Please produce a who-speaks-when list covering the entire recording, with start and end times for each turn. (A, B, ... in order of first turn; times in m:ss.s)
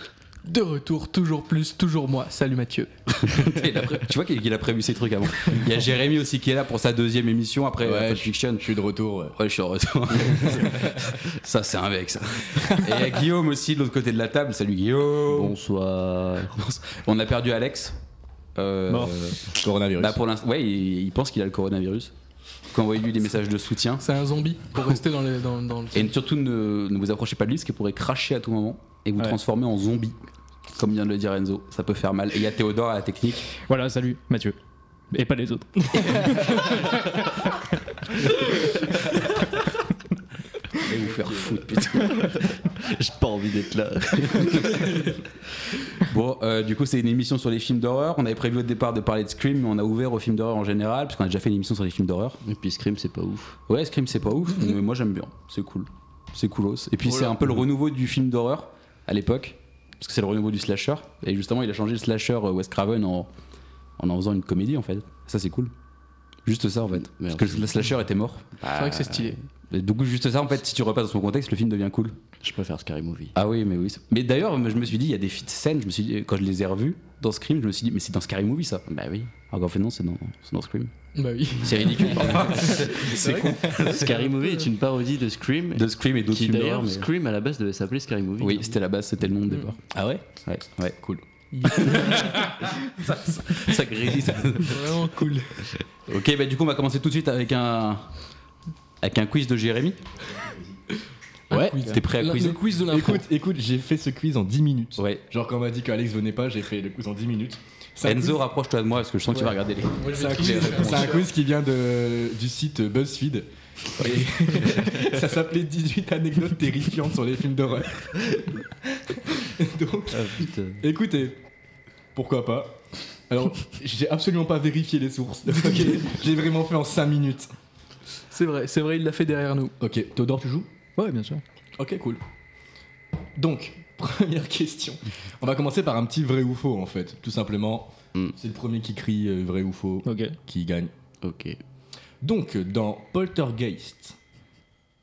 0:00.4-0:02.9 A
0:03.2-0:08.8 B
0:07.8-0:09.4 C
0:09.3-0:15.6 B
0:10.2-0:11.0 C
0:12.5-0:13.1 C
0:15.2-0:16.6 D
0:16.6-0:18.0 B
0:18.6-0:19.4 B
0:18.9-0:19.2 E
0:19.5-0:20.2 C
0:20.0-0:22.1 B
0:22.7-0:24.1 B
0:24.0-0:26.1 A
0:25.9-0:30.2 B
0:30.8-0:33.5 B
0:33.6-0:34.6 E
0:35.1-0:37.2 E
0:40.8-0:42.5 B
0:42.0-0:45.2 D
0:44.3-0:45.0 B
0:46.0-0:52.4 B
0:52.4-0:53.6 D
0:53.7-1:03.3 B
0:57.1-0:57.5 D
1:04.0-1:05.7 B
1:06.4-1:08.4 B
1:07.1-1:07.8 D
1:08.6-1:09.4 D
1:08.7-1:09.4 A
1:09.7-1:12.2 B
1:12.4-1:13.4 D
1:13.3-1:18.8 B
1:18.9-1:19.3 D
1:19.5-1:20.9 B
1:21.2-1:24.1 A
1:21.6-1:24.3 B
1:23.7-1:28.8 D
1:25.7-1:27.1 B
1:28.4-1:29.8 B
1:29.9-1:30.4 C
1:30.5-1:31.0 B
1:31.0-1:31.2 C
1:31.5-1:32.6 A
1:31.7-1:34.9 B
1:34.6-1:35.5 A
1:36.1-1:38.1 B
1:39.0-1:40.0 B
1:41.5-1:42.0 C
1:41.5-1:43.3 A
1:41.8-1:42.7 B
1:42.8-1:48.4 C
1:45.0-1:45.2 B
1:48.0-1:51.3 B
1:50.0-1:51.3 A
1:50.1-2:01.4 C
2:00.1-2:00.8 D
2:02.1-2:07.5 C
2:08.3-2:09.7 A
2:09.8-2:10.7 C
2:11.0-2:11.4 E
2:11.8-2:12.2 C
2:13.4-2:20.9 C
2:20.0-2:20.4 E
2:21.2-2:21.6 D
2:22.2-2:24.2 C